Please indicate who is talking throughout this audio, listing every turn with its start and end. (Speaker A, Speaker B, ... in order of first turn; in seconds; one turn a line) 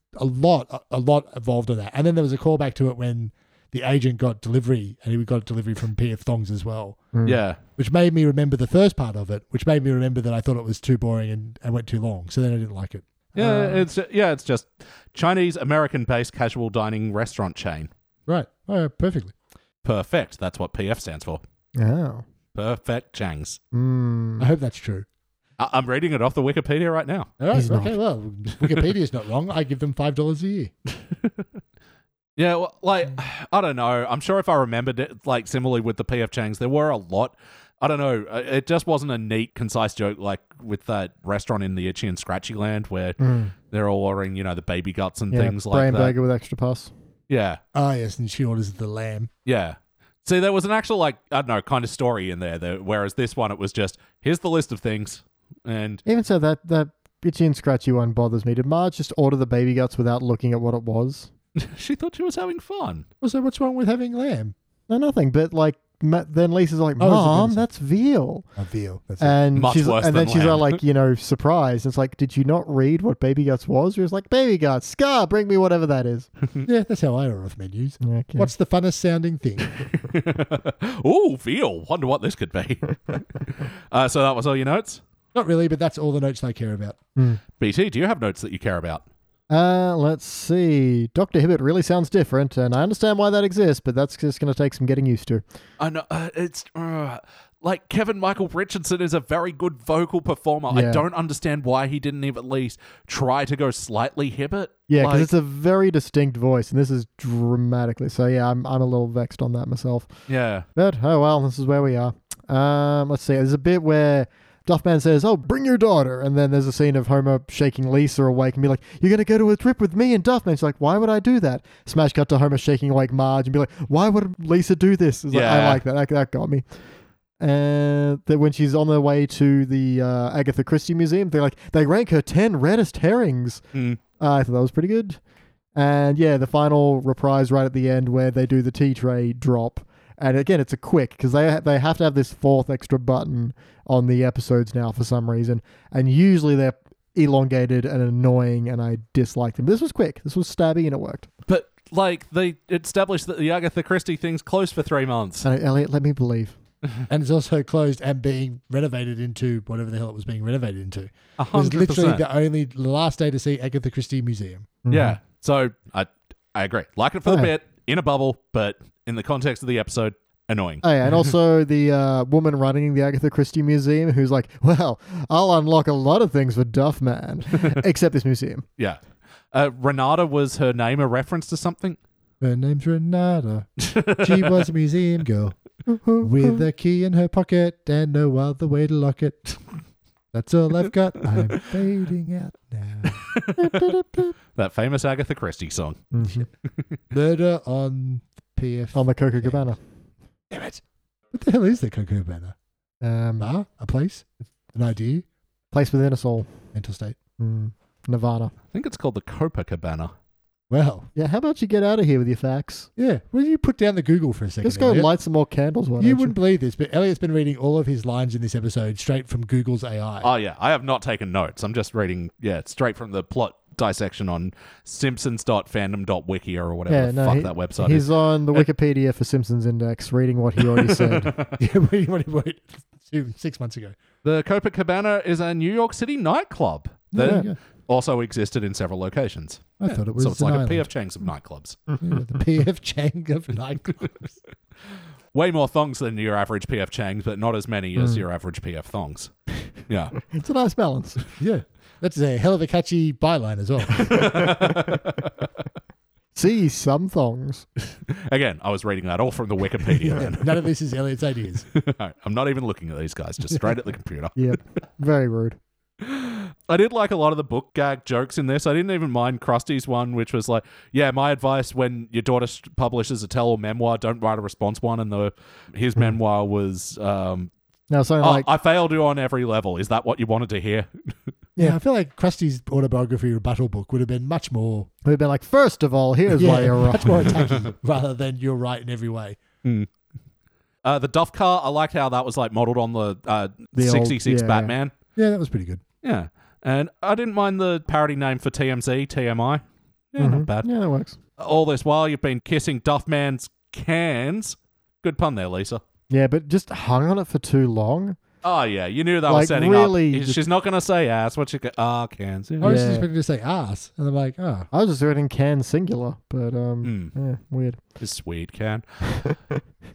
Speaker A: 0.2-7.1
Speaker B: 7.1-7.4
Speaker C: 7.2-7.6
Speaker A: 7.8-13.8
Speaker C: 13.3-17.9
Speaker A: 18.3-19.3
Speaker C: 19.8-21.4
Speaker B: 21.7-22.2
Speaker C: 22.5-23.6
Speaker B: 23.7-24.5
Speaker A: 24.4-25.1
Speaker C: 25.6-27.3
Speaker A: 27.4-30.7
Speaker B: 27.5-27.9
Speaker C: 32.4-43.2
Speaker B: 43.2-43.5
Speaker C: 43.7-46.1
Speaker B: 45.3-46.9
Speaker C: 47.3-47.6
Speaker A: 47.7-49.3
Speaker C: 49.5-56.0
Speaker B: 56.0-61.3
Speaker C: 61.6-63.1
Speaker A: 63.2-64.5
Speaker B: 64.9-68.5
Speaker A: 67.0-67.6
Speaker A: 68.6-69.4
Speaker B: 69.2-76.3
Speaker C: 69.5-70.8
Speaker A: 76.6-79.8
Speaker B: 78.0-78.5
Speaker C: 79.9-85.0
Speaker A: 85.3-87.0
Speaker C: 87.6-89.0
Speaker B: 89.5-95.4
Speaker C: 95.8-105.3
Speaker B: 100.7-101.0
Speaker B: 104.9-110.1
Speaker C: 110.3-110.7
Speaker B: 110.8-126.6
Speaker C: 125.3-125.8
Speaker B: 127.4-133.6
Speaker C: 133.7-134.0
Speaker B: 134.2-135.2
Speaker B: 135.8-151.3
Speaker C: 151.5-155.4
Speaker B: 155.4-156.6
Speaker A: 157.1-164.8
Speaker C: 161.4-162.2
Speaker B: 164.8-165.2
Speaker C: 164.9-171.2
Speaker B: 167.2-167.5
Speaker B: 170.8-178.6
Speaker C: 179.5-182.0
Speaker A: 182.4-185.6
Speaker C: 183.8-184.7
Speaker B: 185.9-186.6
Speaker A: 186.2-189.6
Speaker A: 190.3-193.2
Speaker C: 193.1-193.9
Speaker B: 193.6-194.3
Speaker C: 194.6-196.1
Speaker B: 196.1-196.5
Speaker A: 197.1-199.6
Speaker B: 198.9-199.8
Speaker A: 200.5-202.5
Speaker B: 203.0-203.5
Speaker A: 203.4-205.2
Speaker B: 205.7-206.5
Speaker A: 206.7-207.2
Speaker B: 207.4-208.5
Speaker C: 208.7-210.1
Speaker A: 210.7-211.1
Speaker B: 211.1-212.9
Speaker A: 213.0-215.1
Speaker B: 214.6-216.3
Speaker A: 216.0-220.3
Speaker C: 220.2-228.6
Speaker B: 226.9-231.3
Speaker C: 230.7-231.6
Speaker A: 231.6-233.9
Speaker C: 234.2-241.8
Speaker A: 237.1-237.6
Speaker B: 237.2-237.5
Speaker A: 239.8-240.9
Speaker A: 242.0-244.3
Speaker C: 245.3-249.3
Speaker B: 248.0-248.2
Speaker C: 249.8-250.2
Speaker B: 250.2-251.2
Speaker A: 251.4-254.5
Speaker C: 254.0-255.2
Speaker B: 254.1-255.0
Speaker B: 256.3-257.6
Speaker C: 258.1-260.6
Speaker A: 260.0-261.6
Speaker C: 261.7-264.4
Speaker B: 264.4-265.6
Speaker C: 266.0-277.5
Speaker B: 277.9-278.5
Speaker C: 278.2-281.1
Speaker A: 281.6-284.9
Speaker B: 285.0-287.5
Speaker A: 286.3-289.4
Speaker C: 290.8-294.9
Speaker B: 293.7-294.7
Speaker A: 295.1-295.8
Speaker C: 296.0-299.6
Speaker C: 300.1-300.7
Speaker B: 300.2-301.2
Speaker C: 301.4-305.8
Speaker B: 306.1-308.2
Speaker C: 308.4-312.7
Speaker B: 309.3-310.4
Speaker A: 312.6-314.7
Speaker B: 312.6-313.1
Speaker B: 314.7-317.8
Speaker C: 316.8-317.1
Speaker C: 318.0-318.8
Speaker B: 319.1-319.4